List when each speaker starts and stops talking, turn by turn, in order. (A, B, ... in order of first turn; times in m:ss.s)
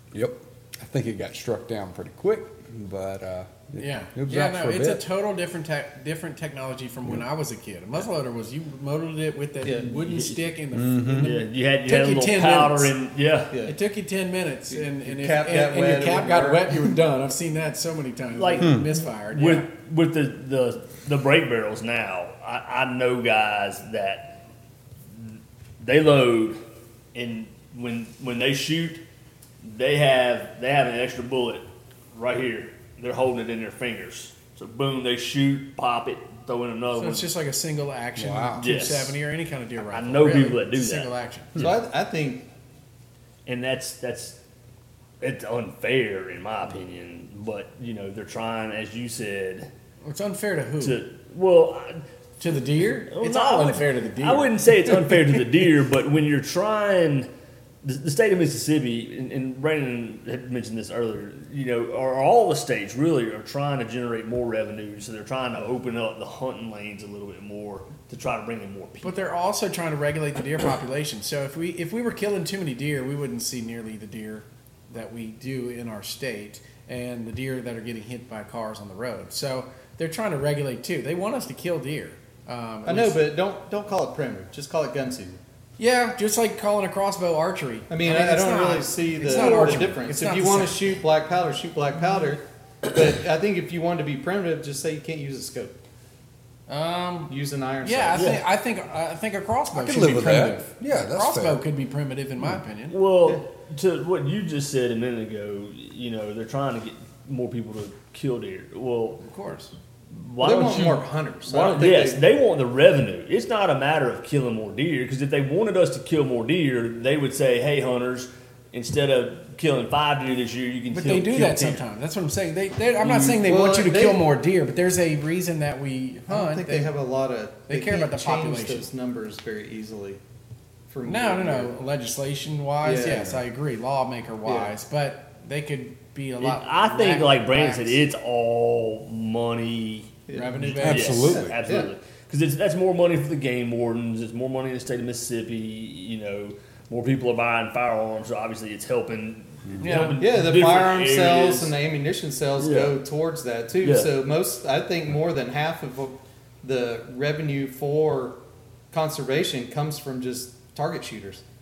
0:00.1-0:05.0 A
0:03.8-0:12.9 B
0:09.6-0:09.9 C
0:09.9-0:10.4 D
0:10.7-0:11.3 A
0:11.1-0:13.5 D
0:13.5-0:13.8 C
0:13.6-0:19.7 B
0:14.7-0:16.9 C
0:18.3-0:24.4 D
0:18.6-0:18.9 A
0:25.1-0:26.6 D
0:27.1-0:29.0 D
0:29.6-0:37.3 D
0:36.9-0:41.5 B
0:38.2-0:38.6 A
0:38.6-0:39.2 D
0:39.8-0:41.1 D
0:41.6-0:42.4 C
0:43.4-0:44.4 D
0:45.2-0:49.7 D
0:50.0-0:51.0 B
0:50.8-0:52.0 D
0:52.4-0:54.5 B
0:53.1-0:57.3 D
0:57.8-1:09.3 D
1:09.0-1:23.3 B
1:22.8-1:25.4 C
1:25.8-1:30.8 B
1:27.9-1:35.8 C
1:36.7-1:42.9 B
1:37.3-1:38.4 C
1:38.1-1:38.4 D
1:39.7-1:41.6 A
1:42.9-1:49.2 D
1:49.2-1:49.7 B
1:50.1-2:01.8 D
1:50.4-1:52.2 C
2:00.9-2:06.9 B
2:03.0-2:04.2 C
2:06.3-2:10.2 C
2:07.7-2:08.8 B
2:10.9-2:11.7 C
2:11.0-2:18.0 B
2:12.8-2:13.4 C
2:14.4-2:14.7 C
2:16.4-2:20.1 D
2:20.3-2:21.9 C
2:20.3-2:21.2 B
2:20.6-2:21.5 A
2:20.8-2:31.7 D
2:29.8-2:30.2 B
2:30.2-2:38.4 C
2:32.6-2:33.0 D
2:33.8-2:34.1 D
2:38.9-2:41.4 C